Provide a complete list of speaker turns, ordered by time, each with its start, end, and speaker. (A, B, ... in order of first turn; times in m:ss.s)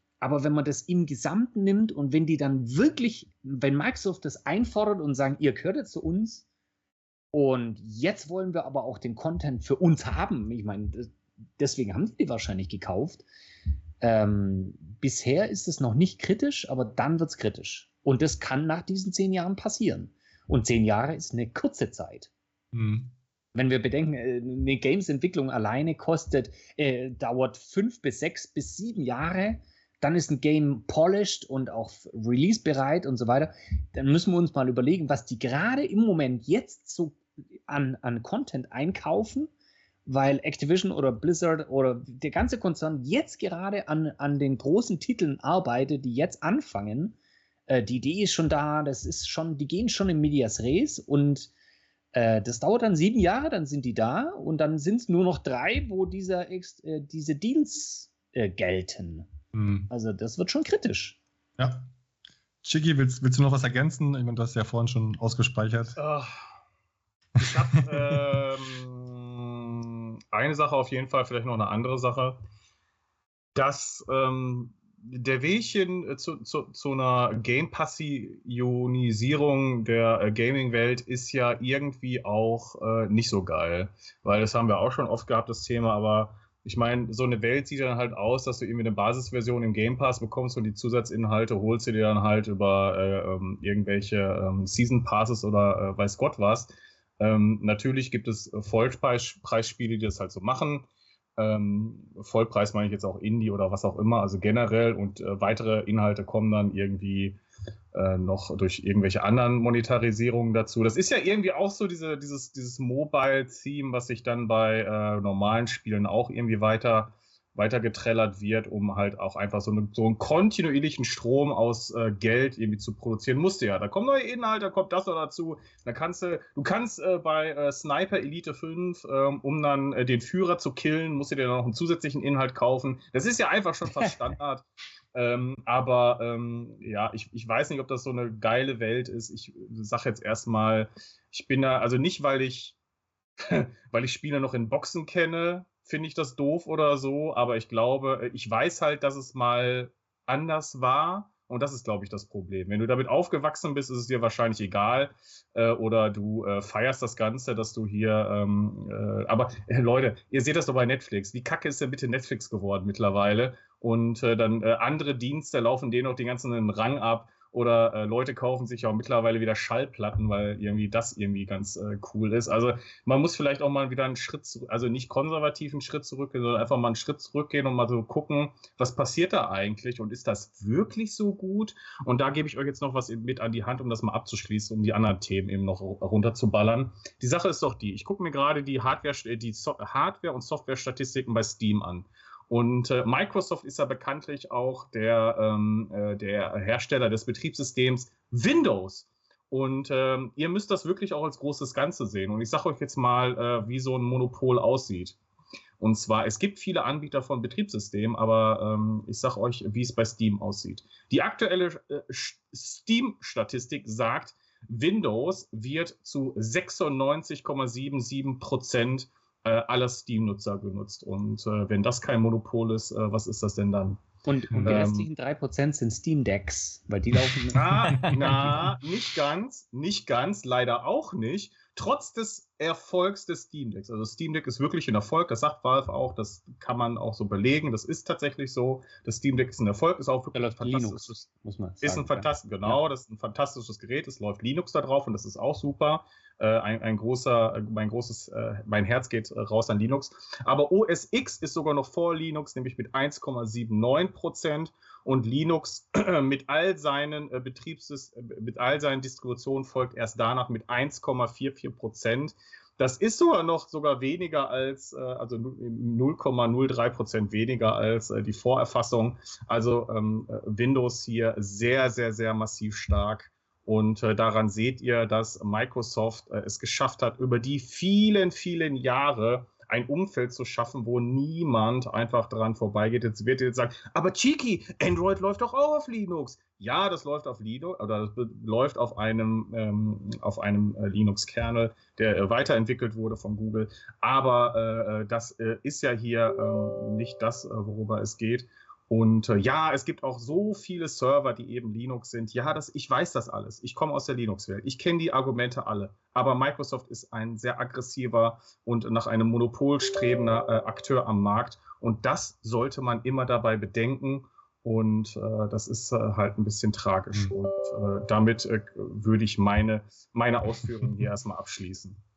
0:00.2-0:06.4 A
0:07.3-0:13.2 A
0:14.0-0:22.3 A
0:22.7-0:23.1 B
0:23.5-0:39.5 A
0:40.0-0:47.2 A
0:47.7-0:51.5 A
0:52.1-0:59.3 A
0:59.5-0:59.9 B
0:59.9-1:01.2 A
1:01.6-1:01.9 B
1:02.6-1:06.0 B
1:06.0-1:06.3 C
1:07.4-1:09.8 C
1:07.4-1:08.2 B
1:10.3-1:12.4 C
1:13.5-1:47.4 C
1:47.9-2:22.8 C
2:23.4-3:25.2 C
3:25.8-3:44.0 C
3:44.2-3:48.6 A
3:44.5-3:44.8 B
3:44.6-3:45.1 C
3:47.5-4:01.1 C
3:48.0-3:48.3 B
4:00.3-4:02.8 A
4:01.8-5:22.0 C